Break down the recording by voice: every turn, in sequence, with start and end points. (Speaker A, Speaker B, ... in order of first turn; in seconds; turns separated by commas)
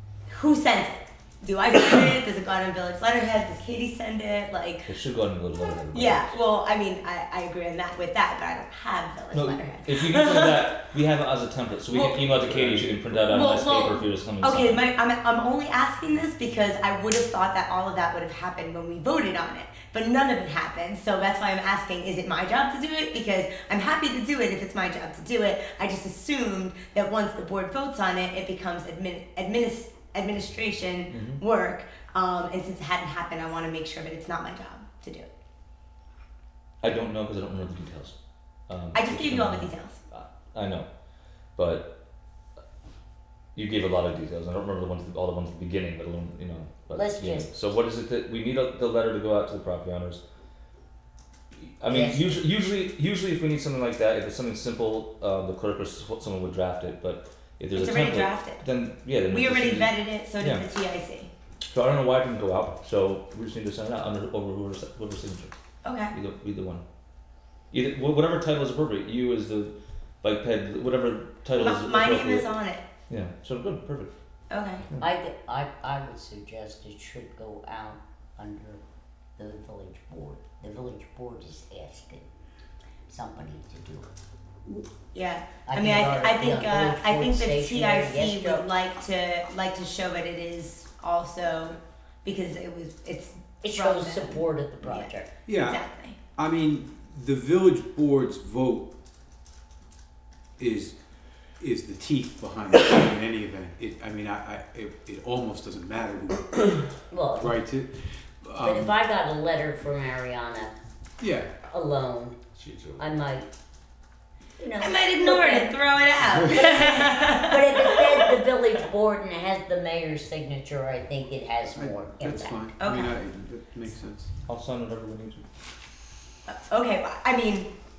Speaker A: 0.3-4.9, Speaker B: 4.9-6.4, Speaker A: 5.9-10.7, Speaker B: 9.3-14.9, Speaker A: 13.3-35.3, Speaker B: 31.1-31.4, Speaker B: 36.8-38.2, Speaker B: 38.7-40.9, Speaker A: 38.9-40.0, Speaker B: 41.6-41.9, Speaker B: 43.5-50.2, Speaker C: 46.9-47.5, Speaker B: 51.5-60.6, Speaker C: 51.9-52.5, Speaker A: 57.7-58.6, Speaker A: 59.3-61.3, Speaker B: 61.7-65.5, Speaker A: 65.8-66.1, Speaker B: 66.1-66.8, Speaker B: 67.7-72.5, Speaker A: 71.6-72.8, Speaker B: 73.1-74.1, Speaker A: 74.5-74.8, Speaker C: 75.0-78.8, Speaker C: 79.4-82.3, Speaker C: 83.1-84.1, Speaker A: 85.1-96.2, Speaker C: 85.7-88.7, Speaker C: 93.6-95.3, Speaker D: 95.5-95.8, Speaker D: 96.4-98.9, Speaker D: 100.6-100.9, Speaker D: 101.6-109.0, Speaker C: 107.1-107.6, Speaker C: 108.6-110.7, Speaker D: 111.2-111.6, Speaker C: 111.6-112.4, Speaker D: 112.6-113.0, Speaker C: 113.0-113.5, Speaker C: 114.6-115.8, Speaker A: 114.8-118.3, Speaker C: 116.5-122.6, Speaker D: 121.7-124.3, Speaker A: 122.8-123.2, Speaker B: 124.5-125.4, Speaker A: 126.5-127.7